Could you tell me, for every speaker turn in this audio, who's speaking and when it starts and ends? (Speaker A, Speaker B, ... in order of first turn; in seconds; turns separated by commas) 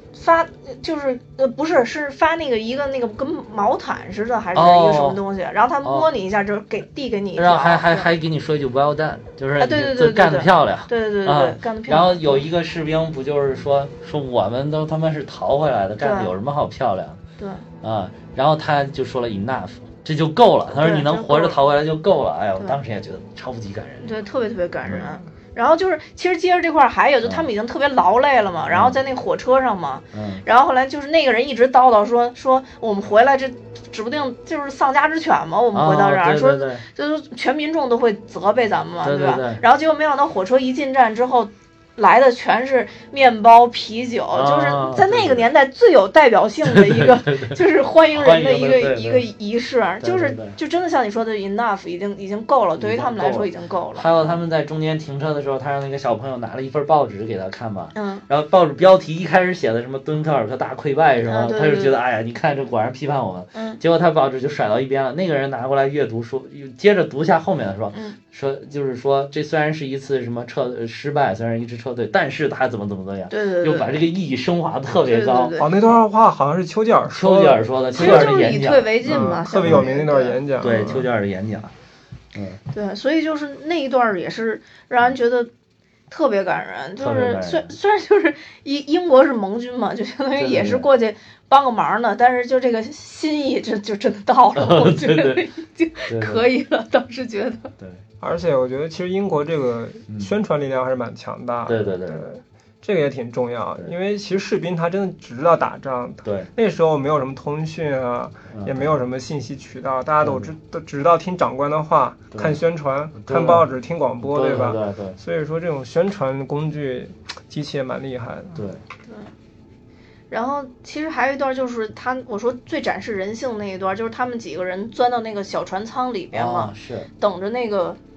Speaker A: 0.1-8.1, Speaker B: 4.5-5.2, Speaker B: 7.4-17.2, Speaker A: 9.6-12.4, Speaker A: 16.0-16.3, Speaker A: 17.4-17.7, Speaker B: 17.8-24.1, Speaker A: 20.7-21.6, Speaker A: 24.0-54.1, Speaker B: 24.9-25.2, Speaker B: 28.7-29.0, Speaker B: 30.1-30.4, Speaker B: 35.7-36.9, Speaker B: 39.0-39.6, Speaker B: 44.3-45.5, Speaker B: 46.6-47.6, Speaker B: 48.1-49.2, Speaker B: 50.0-50.6, Speaker B: 52.8-75.6, Speaker A: 57.9-58.3, Speaker A: 61.3-62.0, Speaker A: 63.5-63.8, Speaker A: 67.9-68.2, Speaker A: 73.3-74.0, Speaker A: 75.0-75.7, Speaker C: 75.6-78.4, Speaker B: 77.1-79.9, Speaker A: 78.0-80.8, Speaker C: 79.0-81.1, Speaker B: 80.6-81.7, Speaker B: 82.3-82.6, Speaker A: 82.7-85.5, Speaker A: 86.1-97.7, Speaker B: 87.0-87.7, Speaker B: 90.4-90.8, Speaker B: 94.6-95.4, Speaker B: 96.1-96.4, Speaker C: 98.2-118.6, Speaker B: 101.7-102.3, Speaker B: 106.2-106.5, Speaker B: 108.5-108.9, Speaker B: 110.2-110.5, Speaker B: 112.3-112.6, Speaker B: 113.2-113.7, Speaker B: 114.2-115.2, Speaker B: 118.5-118.8, Speaker A: 120.3-128.0, Speaker B: 126.3-127.1